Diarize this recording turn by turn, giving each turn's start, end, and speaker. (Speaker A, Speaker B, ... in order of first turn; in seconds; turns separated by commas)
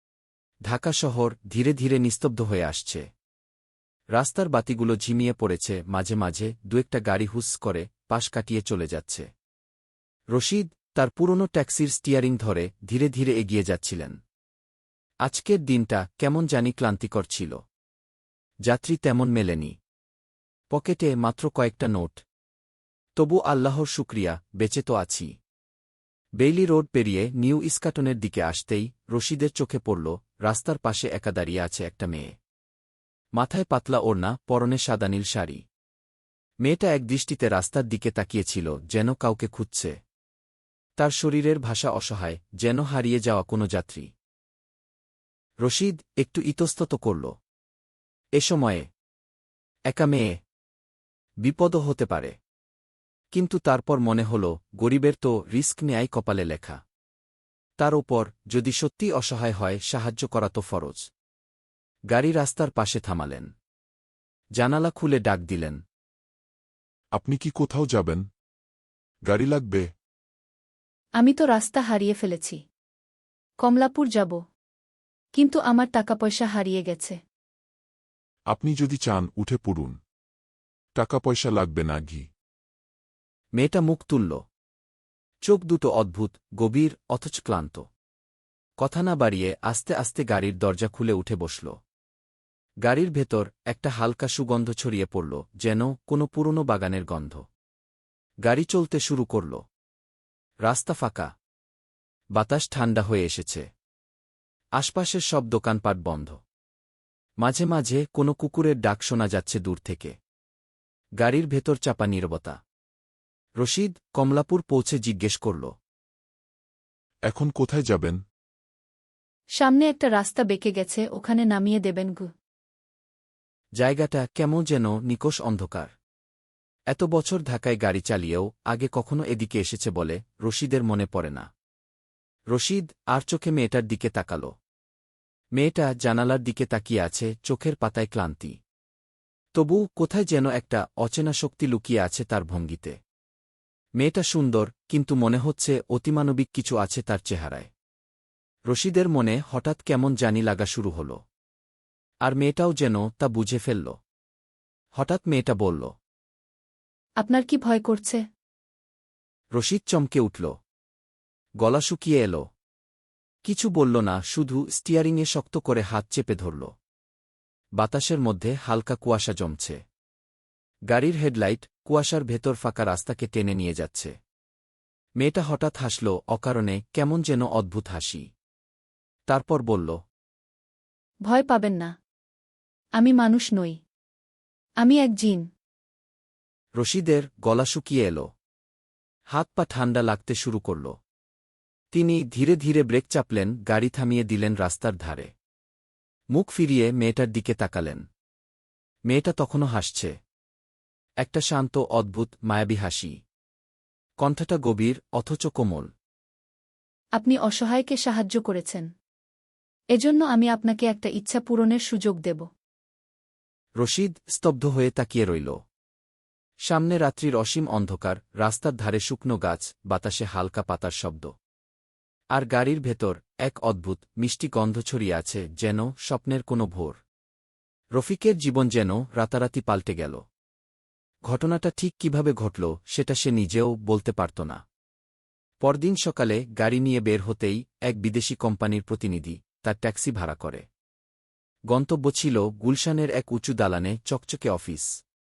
Speaker A: 0.7-3.1, Speaker A: 4.2-9.3, Speaker A: 10.3-14.2, Speaker A: 15.2-17.6, Speaker A: 18.6-19.7, Speaker A: 20.7-22.2, Speaker A: 23.2-25.3, Speaker A: 26.4-32.3, Speaker A: 33.4-35.6, Speaker A: 36.6-40.0, Speaker A: 41.0-44.1, Speaker A: 45.6-47.3, Speaker A: 48.4-48.9, Speaker A: 49.9-50.4, Speaker A: 51.4-52.4, Speaker A: 53.3-56.8, Speaker A: 57.8-61.1, Speaker A: 62.1-63.5, Speaker A: 64.6-65.8, Speaker B: 67.2-68.2, Speaker B: 69.3-69.9, Speaker C: 71.2-72.6, Speaker C: 73.6-74.4, Speaker C: 75.3-77.2, Speaker B: 78.5-80.0, Speaker B: 81.0-82.3, Speaker A: 83.6-84.4, Speaker A: 85.5-87.9, Speaker A: 88.8-91.8, Speaker A: 92.8-97.5, Speaker A: 98.4-99.6, Speaker A: 100.7-101.3, Speaker A: 102.3-103.7, Speaker A: 104.8-106.4, Speaker A: 107.4-110.2, Speaker A: 111.2-112.6, Speaker A: 113.6-115.7, Speaker B: 117.3-118.2, Speaker C: 119.6-122.3, Speaker A: 123.8-125.9, Speaker A: 126.9-131.5, Speaker A: 132.5-134.5, Speaker A: 135.6-138.6, Speaker A: 139.6-143.0, Speaker A: 144.0-147.7, Speaker A: 148.7-151.2, Speaker A: 152.2-154.0, Speaker A: 155.0-155.9, Speaker C: 157.2-158.2, Speaker A: 159.5-160.5, Speaker A: 161.6-162.5, Speaker A: 163.4-166.7, Speaker A: 167.8-169.8, Speaker A: 170.9-174.1, Speaker A: 175.2-178.3, Speaker A: 179.3-180.0, Speaker C: 181.3-181.9, Speaker C: 183.0-183.8, Speaker C: 184.8-185.5, Speaker A: 186.8-188.3, Speaker A: 189.3-190.9, Speaker A: 191.9-195.3, Speaker A: 196.3-198.0, Speaker A: 199.1-200.2, Speaker A: 201.2-203.2, Speaker A: 204.2-205.9, Speaker C: 207.2-208.9, Speaker C: 209.9-212.5, Speaker A: 213.8-215.6, Speaker A: 216.7-221.3, Speaker A: 222.3-227.0, Speaker A: 228.0-230.2, Speaker A: 231.3-234.6, Speaker A: 235.6-240.6, Speaker A: 241.7-245.0